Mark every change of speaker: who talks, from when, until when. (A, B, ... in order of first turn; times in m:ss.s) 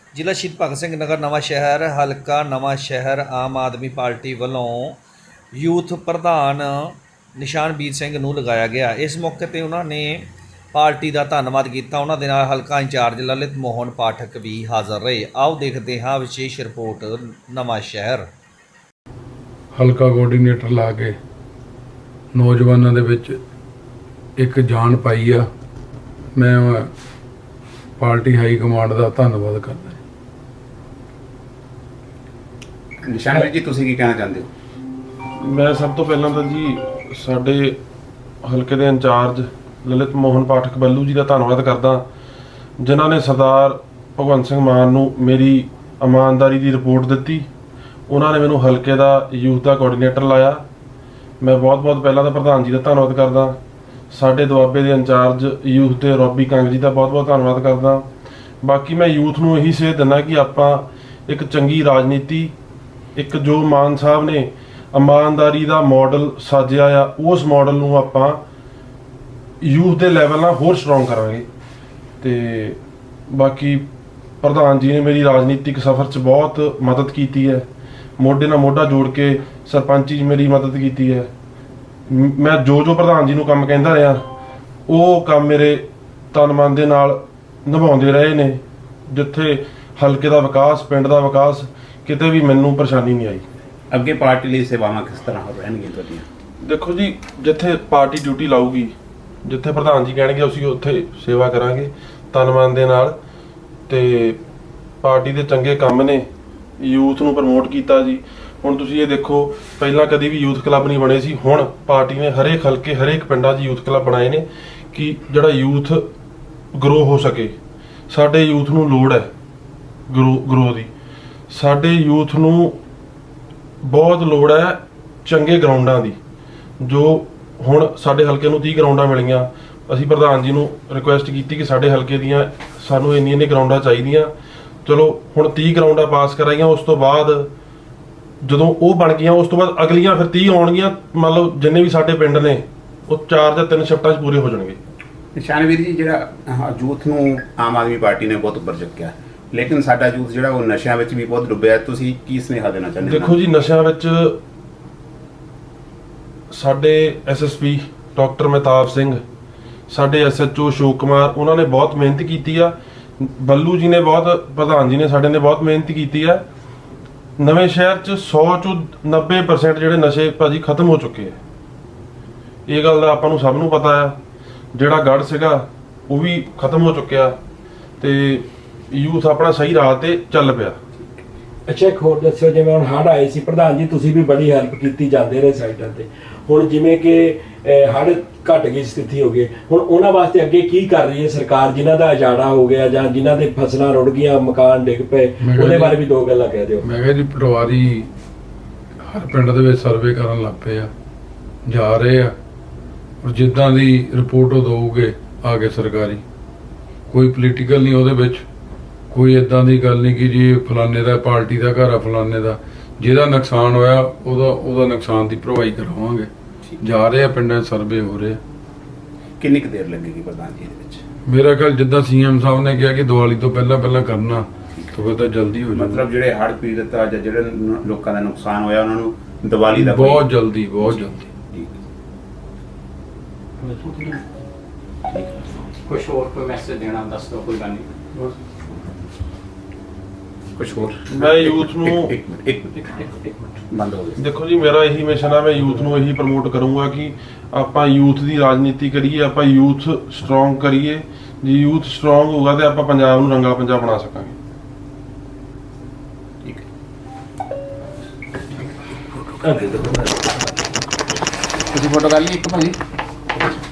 0:00.2-0:05.0 A
0:05.6-0:18.3 A
0:19.7-0:21.2 B
0:22.3-0:23.4 B
0:24.4-0:25.5 B
0:26.4-0:26.9 B
0:28.0-0:30.0 B
0:33.0-0:34.5 C
0:35.4-0:37.8 D
0:38.4-0:42.0 D
0:42.8-0:47.5 D
0:48.1-0:50.6 D
0:51.4-0:53.6 D
0:54.1-0:58.1 D
0:58.6-1:02.5 D
1:03.2-1:08.4 D
1:09.6-1:11.5 D
1:12.2-1:13.9 D
1:14.4-1:17.7 D
1:18.2-1:21.3 D
1:22.1-1:24.2 D
1:24.9-1:33.4 D
1:33.9-1:36.3 C
1:36.6-1:43.2 D
1:43.9-1:44.4 D
1:45.0-1:46.3 D
1:46.8-1:56.1 D
1:56.7-1:57.6 D
1:58.1-1:59.3 D
2:00.1-2:00.9 D
2:01.5-2:02.8 D
2:03.8-2:06.2 D
2:06.8-2:14.3 D
2:14.8-2:17.5 D
2:18.4-2:24.8 D
2:25.4-2:33.4 C
2:33.0-2:34.4 D
2:36.5-2:39.2 D
2:39.9-2:46.4 D
2:47.4-2:51.4 D
2:52.7-2:54.2 D
2:54.7-2:57.4 D
2:58.0-3:00.8 D
3:01.7-3:16.8 E
3:15.4-3:16.0 B
3:16.8-3:18.1 B
3:19.0-3:20.9 B
3:21.7-3:22.4 B
3:23.2-3:26.2 B
3:27.1-3:28.5 B
3:29.1-3:36.3 B
3:36.8-3:38.4 B
3:39.4-3:41.0 C
3:41.3-3:46.0 B
3:45.7-3:50.2 C
3:49.7-3:51.3 B
3:50.8-3:51.8 C
3:55.1-3:55.4 C
3:55.9-3:58.3 F
4:00.6-4:02.9 C
4:01.1-4:02.1 D
4:03.7-4:04.2 C
4:04.2-4:14.4 D
4:19.4-4:19.8 F
4:21.7-4:22.8 C